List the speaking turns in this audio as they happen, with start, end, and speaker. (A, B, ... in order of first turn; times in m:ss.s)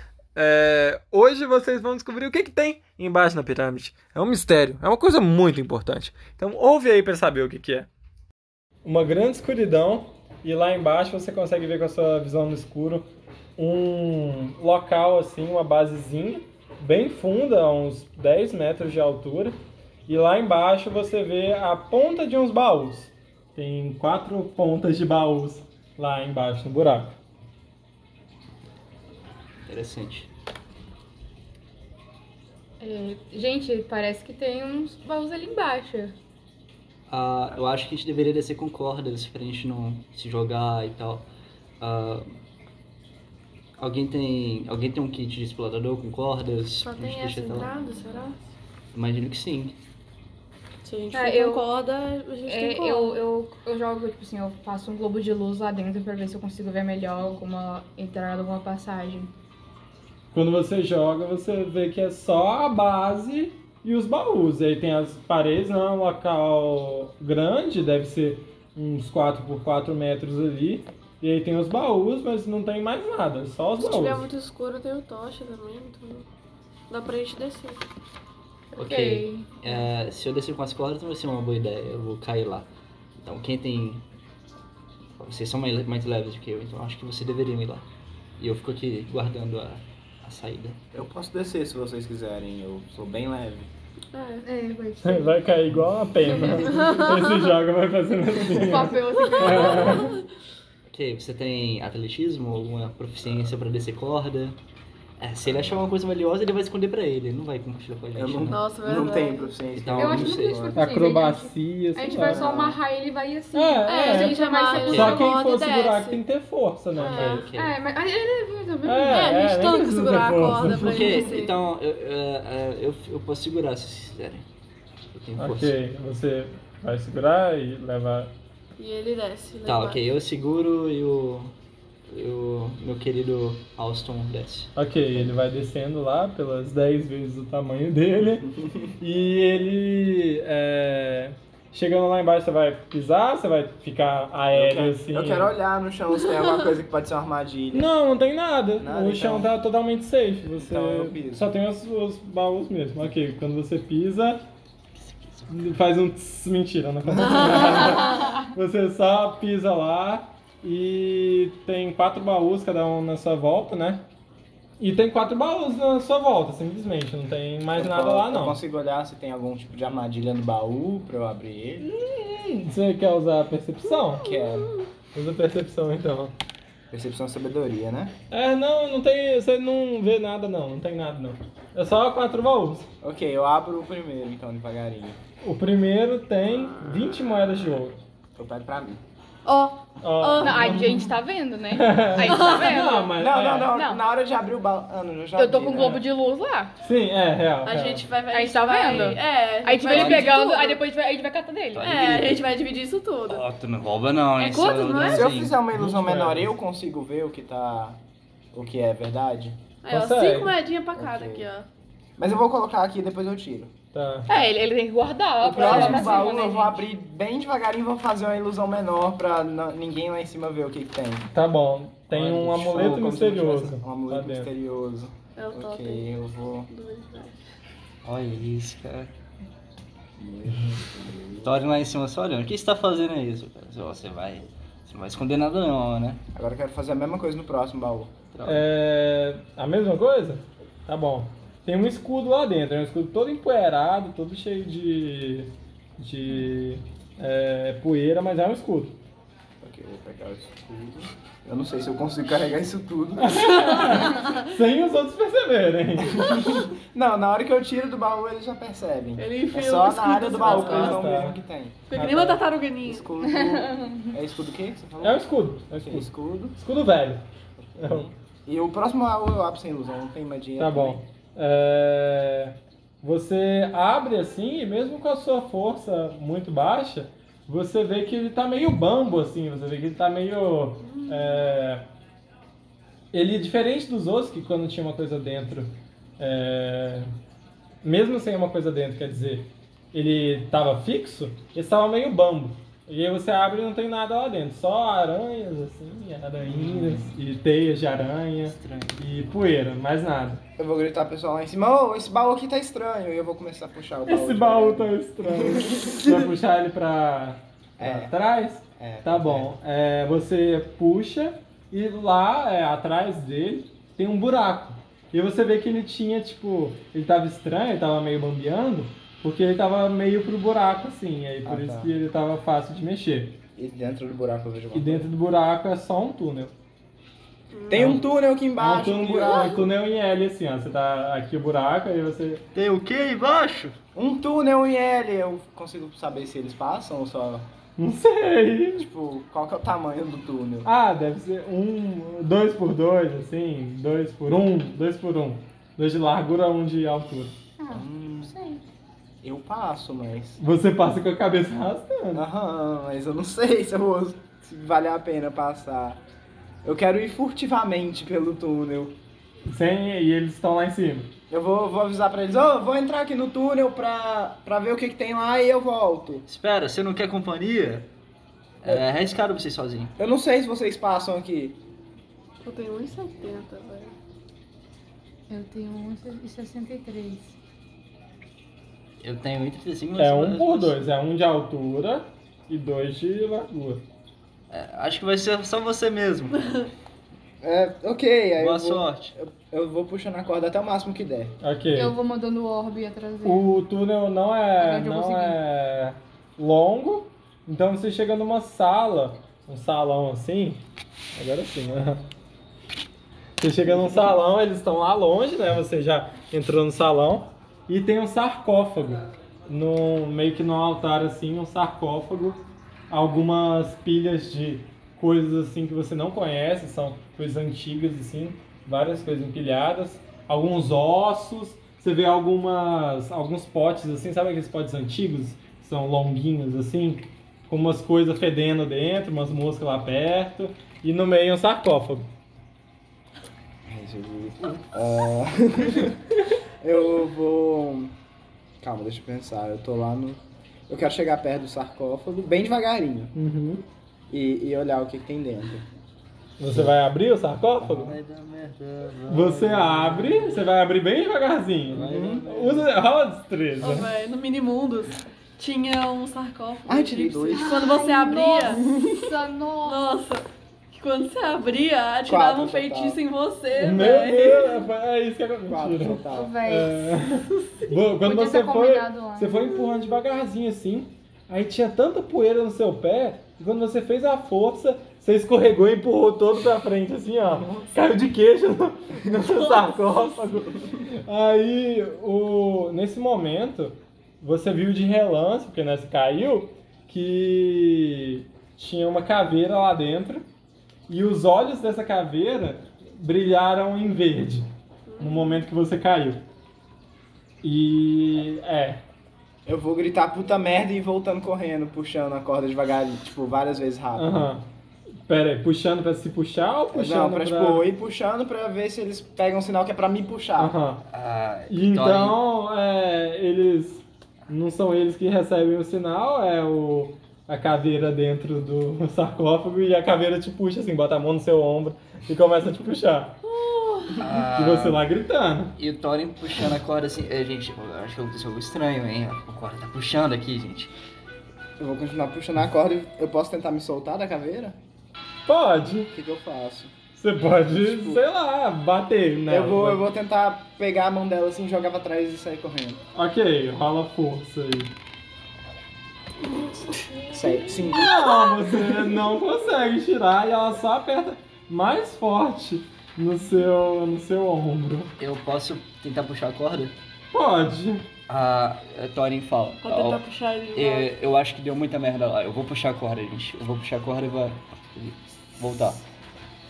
0:00.3-0:07.9 A
0:08.8-0:27.2 A
0:29.6-0:30.3 B
0:32.8-0:36.2 C
0:37.1-0:41.3 B
0:41.8-0:42.3 B
0:43.8-0:47.7 B
0:46.8-0:48.4 D
0:48.9-0:49.8 B
0:50.8-0:53.2 D
0:51.1-0:51.6 C
0:52.5-0:59.3 C
1:00.3-1:14.3 A
1:13.8-1:16.3 D
1:16.9-1:17.8 D
1:18.7-1:19.8 C
1:18.8-1:22.7 B
1:23.2-1:24.0 B
1:25.1-1:27.8 B
1:28.4-1:30.8 B
1:30.9-1:33.7 E
1:34.1-1:34.4 D
1:34.4-1:35.4 C
1:35.0-1:40.1 A
1:36.2-1:37.3 C
1:36.3-1:36.8 E
1:36.6-1:37.1 D
1:38.4-1:40.1 C
1:39.1-1:40.2 D
1:40.9-1:44.6 B
1:45.2-1:48.6 B
1:48.1-1:50.7 E
1:48.5-1:49.5 D
1:49.7-1:50.8 B
1:50.0-1:55.3 C
1:50.7-1:52.5 A
1:52.1-1:52.8 E
1:53.5-1:57.4 A
1:53.8-1:56.2 D
1:57.0-1:57.4 D
1:57.0-1:57.7 B
1:57.0-1:59.3 C
1:58.8-2:01.2 A
1:59.0-2:01.6 D
2:00.8-2:04.4 B
2:05.0-2:05.7 B
2:05.4-2:08.3 A
2:08.8-2:10.0 D
2:09.6-2:11.5 B
2:12.1-2:14.7 B
2:14.7-2:25.5 A
2:18.6-2:18.8 E
2:24.5-2:27.9 E
2:27.7-2:34.4 A
2:28.8-2:29.5 E
2:30.6-2:31.4 E
2:35.0-2:35.7 B
2:35.5-2:44.0 A
2:37.2-2:38.3 D
2:37.6-2:38.4 C
2:44.8-2:48.6 A
2:47.7-2:51.8 E
2:51.8-2:54.3 A
2:54.1-2:54.7 E
2:54.4-2:54.7 D
2:55.1-2:56.3 A
2:56.9-2:58.1 E
2:58.3-3:02.9 A
3:03.0-3:05.2 E
3:05.4-3:08.0 A
3:08.4-3:09.0 E
3:09.4-3:10.9 D
3:10.0-3:10.9 A
3:10.4-3:13.1 C
3:11.7-3:13.8 A
3:12.2-3:13.0 D
3:13.2-3:16.0 E
3:13.7-3:14.0 C
3:15.4-3:16.7 C
3:15.8-3:16.0 A
3:16.8-3:18.0 A
3:17.6-3:20.8 D
3:18.3-3:21.9 C
3:19.9-3:20.2 B
3:21.7-3:22.5 B
3:21.8-3:23.4 D
3:23.2-3:25.6 B
3:24.4-3:25.3 D
3:25.0-3:28.0 E
3:25.7-3:26.5 A
3:28.5-3:29.6 E
3:29.8-3:31.7 D
3:29.9-3:30.5 A
3:30.9-3:31.5 E
3:32.2-3:33.7 E
3:33.9-3:34.3 A
3:34.3-3:36.8 C
3:35.4-3:41.3 E
3:35.6-3:36.2 A
3:41.3-3:44.5 A
3:42.1-3:46.7 E
3:45.4-3:46.1 D
3:46.7-3:47.4 D
3:48.0-3:49.1 B
3:50.2-3:51.6 E
3:51.4-3:56.2 B
3:56.3-3:58.1 E
3:58.3-3:58.6 B
3:58.4-4:09.0 A
4:09.6-4:14.0 E
4:13.2-4:16.7 A
4:13.7-4:14.3 D
4:16.1-4:21.8 E
4:19.2-4:21.1 D
4:20.4-4:21.4 A
4:21.9-4:23.1 D
4:21.9-4:22.4 A
4:22.8-4:26.5 E
4:23.2-4:24.1 C
4:25.0-4:28.1 A
4:27.6-4:31.0 E
4:30.6-4:41.8 A
4:40.8-4:41.6 D
4:43.1-4:47.1 A
4:47.8-5:00.4 A
4:56.5-4:57.2 B
4:58.4-4:59.0 B
5:00.6-5:06.3 E
5:04.1-5:23.4 A
5:07.8-5:08.1 E
5:08.8-5:09.5 E
5:21.4-5:21.9 E
5:23.6-5:25.1 E
5:24.7-5:26.5 A
5:27.5-5:28.0 D
5:27.7-5:29.6 E
5:27.7-5:28.0 A
5:28.6-5:32.4 A
5:32.5-5:33.8 B
5:33.9-5:37.5 E
5:37.8-5:38.8 A
5:38.7-5:40.7 E
5:40.6-5:47.3 A
5:47.6-5:48.6 C
5:47.7-5:48.3 E
5:49.2-5:50.4 E
5:50.4-5:52.2 A
5:52.1-5:56.0 E
5:56.6-5:59.0 E
5:59.5-6:01.1 A
6:01.3-6:06.2 E
6:06.3-6:07.9 B
6:08.6-6:09.9 B
6:10.0-6:11.6 E
6:12.4-6:13.9 D
6:15.3-6:17.3 C
6:19.0-6:20.8 B
6:20.0-6:23.8 A
6:24.5-6:26.4 B
6:26.4-6:26.7 D
6:27.4-6:31.4 E
6:28.4-6:29.1 B
6:31.4-6:31.9 A
6:31.7-6:33.6 C
6:33.2-6:40.6 A
6:34.6-6:35.4 C
6:41.1-6:42.0 A
6:43.4-7:12.1 A
7:13.6-7:18.0 E
7:18.6-7:23.1 E
7:23.1-7:23.6 A
7:24.1-7:25.6 E
7:26.4-7:28.0 A
7:27.6-7:30.5 B
7:29.1-7:33.9 A
7:31.7-7:32.7 B
7:31.8-7:32.2 E
7:33.6-7:38.6 D
7:36.7-7:37.5 E
7:37.3-7:39.9 C
7:38.5-7:39.1 E
7:39.6-7:44.7 D
7:42.0-7:43.0 E
7:43.5-8:10.2 A
7:45.4-7:46.4 E
7:46.1-7:46.7 C
7:48.0-7:49.3 C
7:57.2-7:57.7 E
7:59.1-8:00.3 D
8:10.9-8:16.2 A
8:14.9-8:15.5 D
8:17.4-8:18.8 A
8:19.4-8:24.3 E
8:23.9-8:24.4 A
8:25.1-8:27.7 A
8:26.7-8:30.5 E
8:30.4-8:30.8 A
8:30.9-8:32.2 B
8:31.5-8:43.2 A
8:43.2-8:44.0 D
8:44.0-8:44.8 B
8:44.3-8:45.6 A
8:45.6-8:50.7 B
8:51.6-8:54.6 E
8:55.2-8:55.9 A
8:55.9-8:56.7 E
8:57.0-8:59.9 A
8:57.5-8:58.0 E
8:59.3-9:02.8 E
9:02.9-9:04.7 A
9:07.1-9:07.9 E
9:07.8-9:14.9 A
9:15.0-9:16.7 B
9:17.1-9:17.8 A
9:18.1-9:20.0 B
9:19.6-9:20.9 D
9:20.5-9:25.8 B